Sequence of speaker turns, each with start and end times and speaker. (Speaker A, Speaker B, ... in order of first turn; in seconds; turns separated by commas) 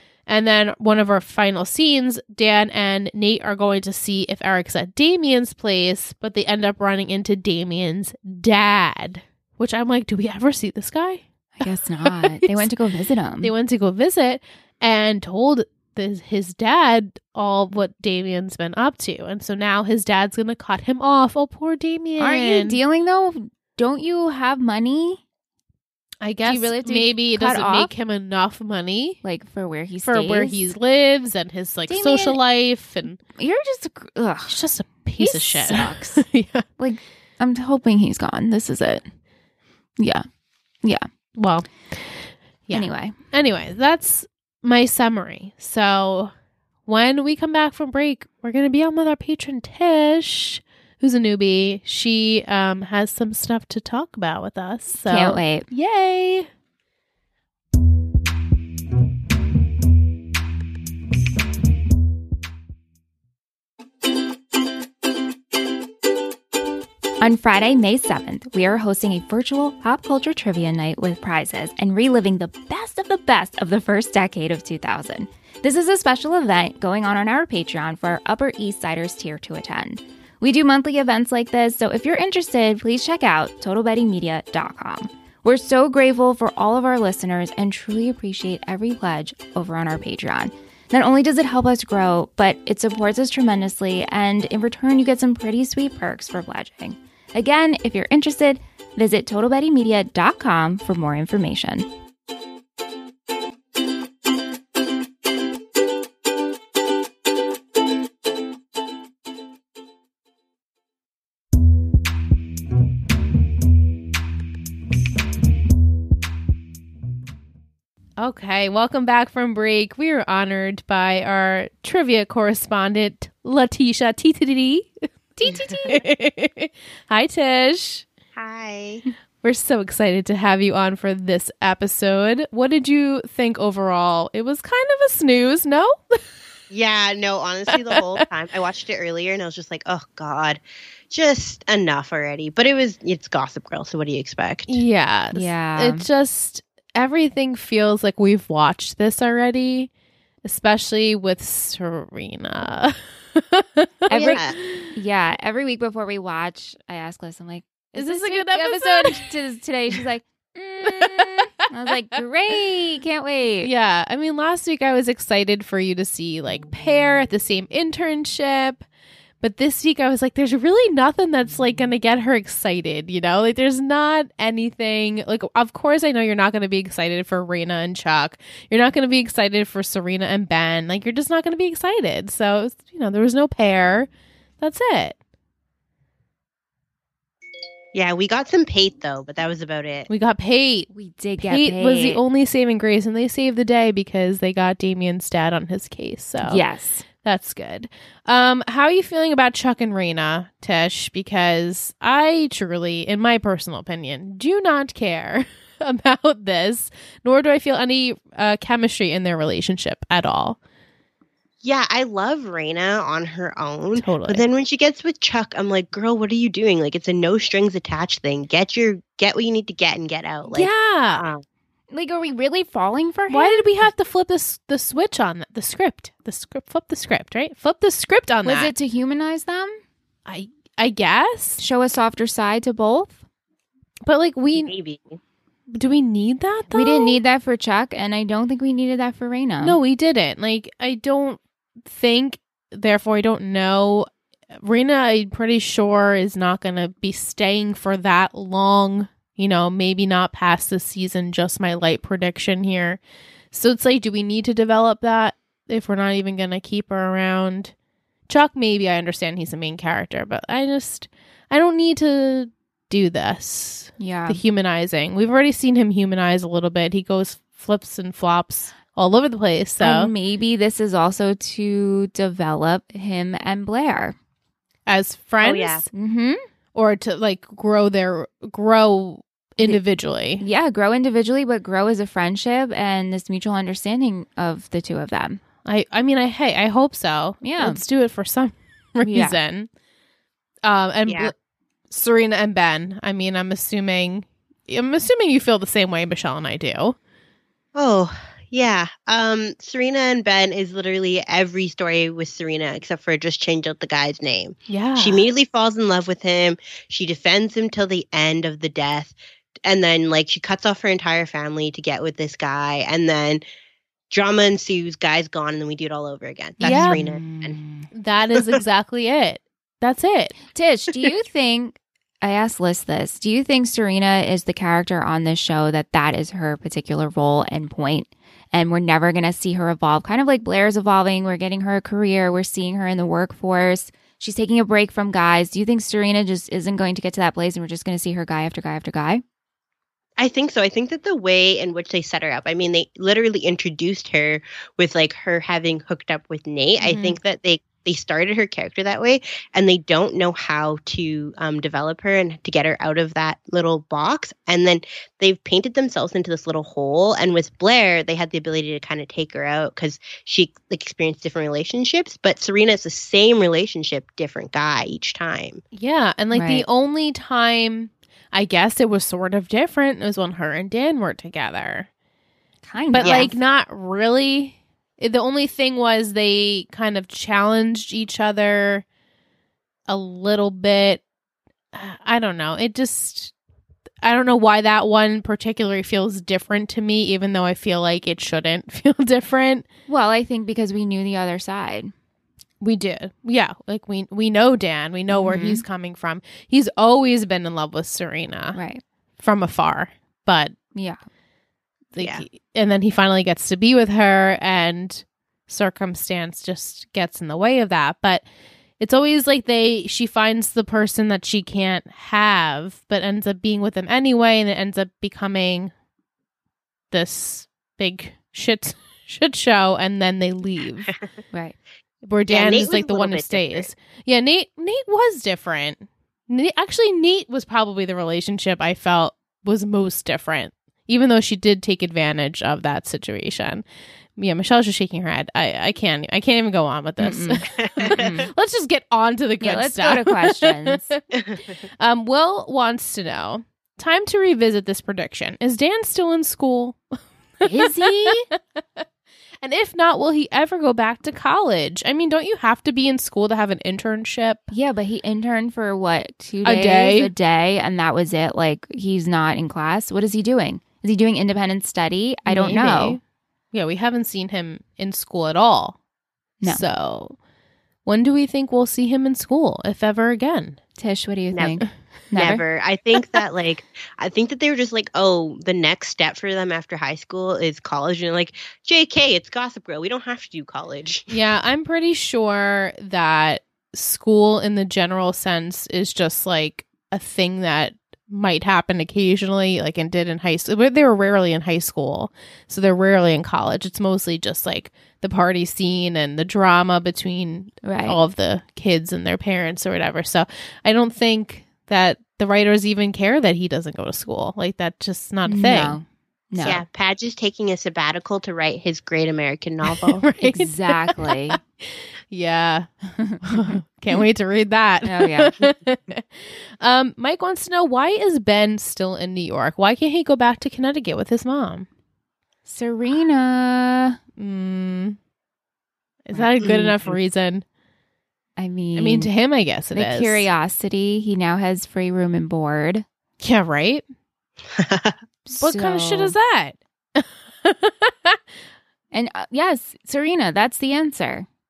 Speaker A: 0.3-12.7, Speaker B: 11.6-13.5, Speaker A: 13.4-22.8, Speaker B: 22.2-25.2, Speaker A: 26.2-29.2, Speaker B: 26.4-27.9, Speaker B: 29.2-30.7, Speaker A: 30.0-33.2, Speaker B: 31.9-32.4, Speaker B: 33.3-34.6, Speaker A: 34.5-36.6, Speaker B: 35.2-36.2, Speaker B: 36.8-39.0, Speaker B: 40.0-40.2, Speaker A: 41.4-42.1, Speaker A: 42.7-46.3, Speaker B: 42.7-43.1, Speaker A: 46.9-56.5, Speaker B: 55.0-55.7, Speaker B: 67.2-101.9, Speaker A: 118.2-128.1, Speaker B: 125.4-126.0, Speaker C: 128.3-129.0, Speaker A: 129.4-136.2, Speaker C: 136.7-144.8, Speaker A: 137.7-138.2, Speaker A: 144.7-149.9, Speaker B: 145.3-146.1, Speaker A: 150.4-154.9, Speaker B: 154.1-154.4, Speaker C: 154.2-154.6, Speaker B: 154.9-163.7, Speaker A: 157.9-159.3, Speaker A: 160.9-161.5, Speaker A: 163.6-168.8, Speaker A: 169.4-184.1, Speaker A: 184.6-185.2, Speaker C: 187.9-190.1, Speaker A: 190.1-196.6, Speaker B: 190.9-192.2, Speaker B: 196.4-197.1, Speaker A: 197.2-210.6, Speaker C: 211.6-221.4, Speaker A: 213.9-214.4, Speaker A: 220.5-221.2, Speaker B: 221.9-223.7, Speaker A: 223.3-228.7, Speaker B: 228.4-229.8, Speaker A: 230.2-231.6, Speaker B: 231.6-233.2, Speaker A: 234.1-234.7, Speaker C: 234.6-235.2, Speaker A: 235.7-237.2, Speaker B: 236.7-239.8, Speaker A: 239.6-244.1, Speaker A: 244.6-253.0, Speaker A: 253.5-257.7, Speaker A: 258.3-270.1, Speaker B: 264.0-264.4, Speaker B: 269.8-274.1, Speaker A: 274.9-275.9, Speaker C: 275.4-275.9, Speaker B: 275.9-276.4, Speaker A: 276.7-280.4, Speaker B: 280.4-285.4, Speaker A: 285.6-289.7, Speaker B: 287.4-287.8, Speaker B: 289.0-289.4, Speaker A: 290.6-291.3, Speaker C: 291.1-291.3, Speaker A: 291.9-296.9, Speaker C: 297.7-313.4, Speaker A: 304.7-305.2, Speaker C: 314.1-317.6, Speaker A: 316.6-317.0, Speaker B: 316.6-317.9, Speaker A: 317.9-320.3, Speaker B: 320.5-339.2, Speaker C: 340.2-365.6, Speaker A: 346.8-347.2, Speaker A: 365.7-371.9, Speaker B: 366.3-366.6, Speaker B: 372.6-373.4, Speaker A: 372.9-378.8, Speaker C: 373.0-373.3, Speaker A: 379.9-381.0, Speaker A: 381.7-383.3, Speaker A: 384.0-389.6, Speaker B: 389.9-391.9, Speaker A: 392.6-398.6, Speaker B: 395.1-395.6, Speaker B: 398.5-398.8, Speaker A: 399.2-400.6, Speaker B: 400.7-401.0, Speaker A: 401.9-408.2, Speaker C: 402.0-402.2, Speaker A: 408.8-415.7, Speaker A: 416.9-420.9, Speaker A: 422.1-433.6, Speaker C: 422.3-423.7, Speaker A: 434.2-441.0, Speaker B: 437.0-438.3, Speaker C: 437.6-438.0, Speaker B: 439.4-440.9, Speaker C: 441.1-441.4, Speaker A: 441.8-446.8, Speaker A: 447.4-448.8, Speaker B: 447.4-448.2, Speaker A: 449.4-454.4, Speaker B: 454.5-463.0, Speaker A: 456.4-457.1, Speaker A: 462.2-463.0, Speaker A: 463.5-465.8, Speaker A: 466.4-467.1, Speaker A: 467.9-470.6, Speaker B: 470.8-472.4, Speaker C: 472.2-481.1, Speaker A: 481.1-505.8, Speaker B: 497.6-498.0, Speaker B: 505.2-506.6, Speaker A: 506.4-506.6, Speaker C: 506.4-510.0, Speaker A: 509.6-512.7, Speaker B: 510.2-511.4, Speaker B: 512.9-513.5, Speaker A: 513.2-521.7, Speaker B: 514.8-515.3, Speaker B: 522.5-524.0, Speaker A: 524.2-525.0, Speaker A: 526.0-527.4, Speaker B: 526.1-526.8, Speaker B: 528.4-529.1, Speaker A: 528.8-530.3, Speaker B: 529.7-532.8, Speaker A: 533.2-533.8, Speaker C: 534.5-535.0, Speaker B: 535.2-536.1, Speaker A: 535.4-538.2, Speaker B: 538.9-541.3